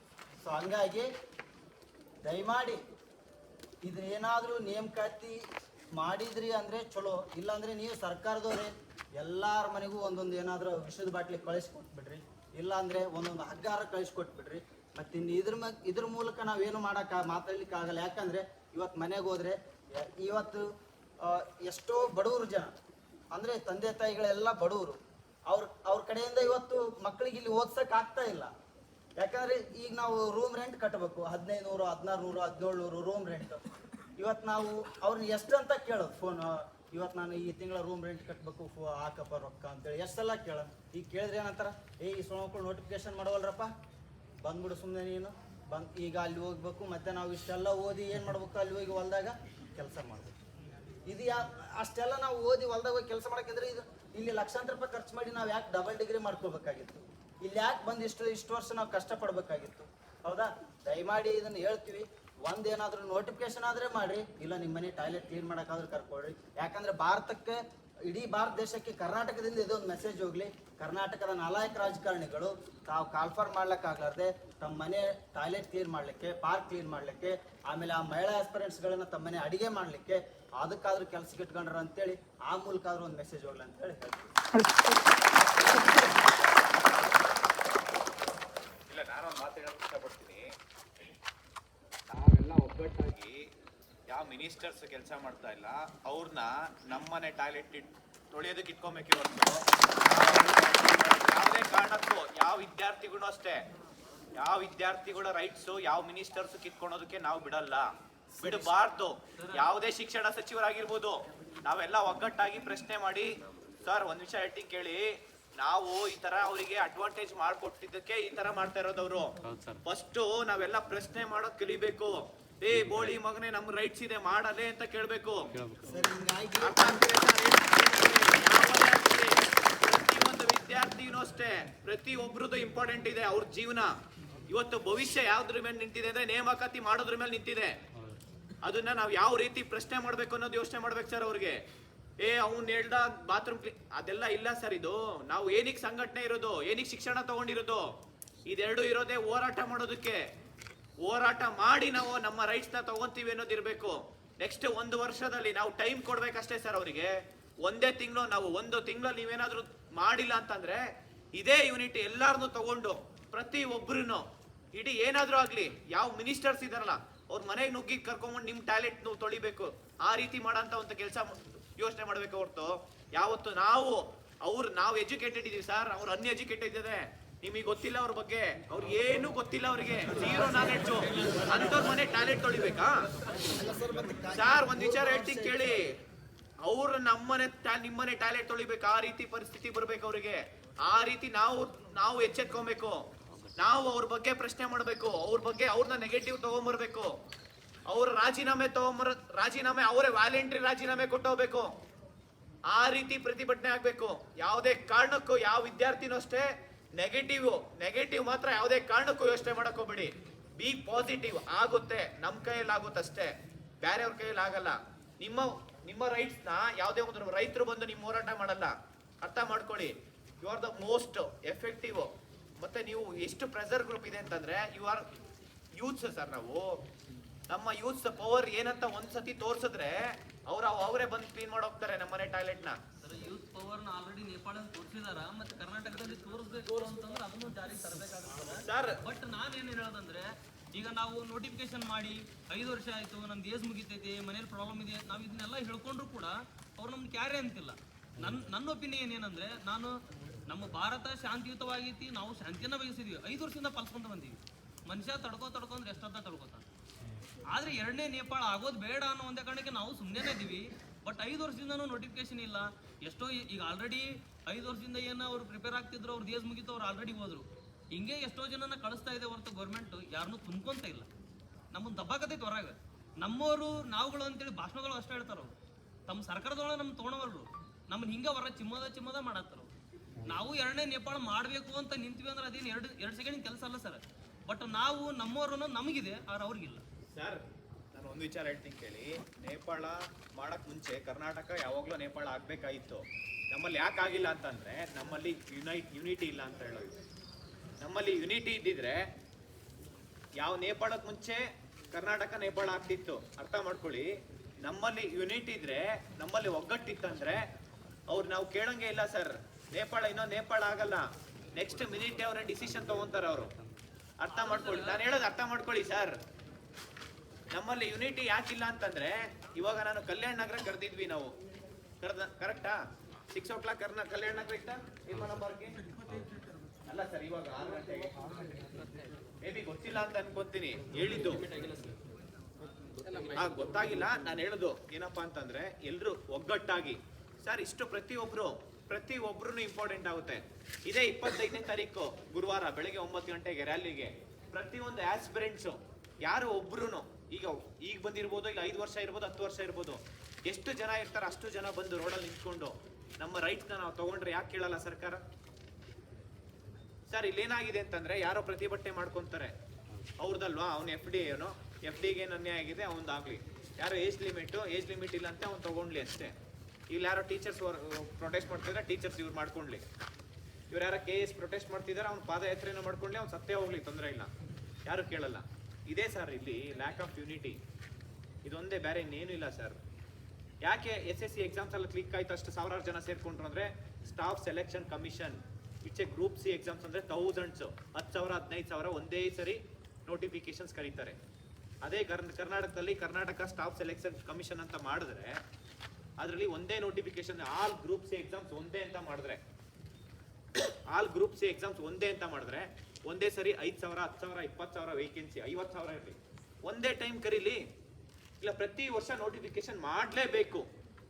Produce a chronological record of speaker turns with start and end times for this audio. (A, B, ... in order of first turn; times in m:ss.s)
0:00.4-0:01.1 A
0:02.2-0:02.8 A
0:03.8-0:05.4 A
0:06.0-0:20.6 A
0:21.2-0:22.7 A
0:23.3-0:28.5 A
0:29.2-0:33.6 A
0:34.2-0:43.7 A
0:44.4-0:50.3 A
0:51.1-1:24.3 A
1:25.7-1:26.0 B
1:28.9-1:30.4 B
1:32.1-1:33.4 B
1:34.1-1:43.6 B
1:44.4-1:53.3 B
1:49.4-1:49.6 C
1:53.8-1:59.3 B
1:59.4-1:59.8 C
1:59.8-2:05.4 B
2:05.8-2:07.1 A
2:06.6-2:13.9 B
2:14.5-2:17.7 B
2:18.6-2:21.6 B
2:22.2-2:27.8 B
2:28.4-2:30.2 B
2:31.0-2:40.8 B
2:41.3-3:03.1 B
3:03.4-3:05.7 A
3:04.3-3:05.9 B
3:06.6-3:13.0 B
3:13.6-3:17.1 B
3:17.9-3:21.7 B
3:22.7-3:26.4 B
3:27.0-3:45.1 B
3:45.8-3:46.8 B
3:47.5-3:50.0 B
3:50.5-3:52.8 B
3:53.0-4:09.9 C
3:58.6-3:59.0 B
4:10.5-4:16.6 C
4:17.5-4:31.1 C
4:31.7-4:35.5 C
4:36.1-4:39.7 C
4:40.2-4:46.8 C
4:47.1-4:47.4 B
4:47.9-4:57.0 B
4:57.8-4:59.0 B
5:00.4-5:01.4 B
5:01.9-5:04.1 B
5:04.6-5:07.4 B
5:08.1-5:13.5 B
5:14.2-5:16.1 B
5:14.3-5:15.0 C
5:17.5-5:21.3 B
5:22.0-5:22.8 B
5:23.3-5:25.8 B
5:26.9-5:28.1 B
5:29.4-5:31.4 B
5:33.3-5:55.2 B
5:57.1-5:59.5 B
6:00.2-6:06.3 B
6:06.9-6:09.8 B
6:10.7-6:14.3 B
6:14.8-6:17.6 B
6:18.4-6:19.8 B
6:20.6-6:31.2 B
6:31.8-6:35.4 B
6:36.2-6:39.4 B
6:40.9-6:47.6 B
6:48.4-6:50.7 B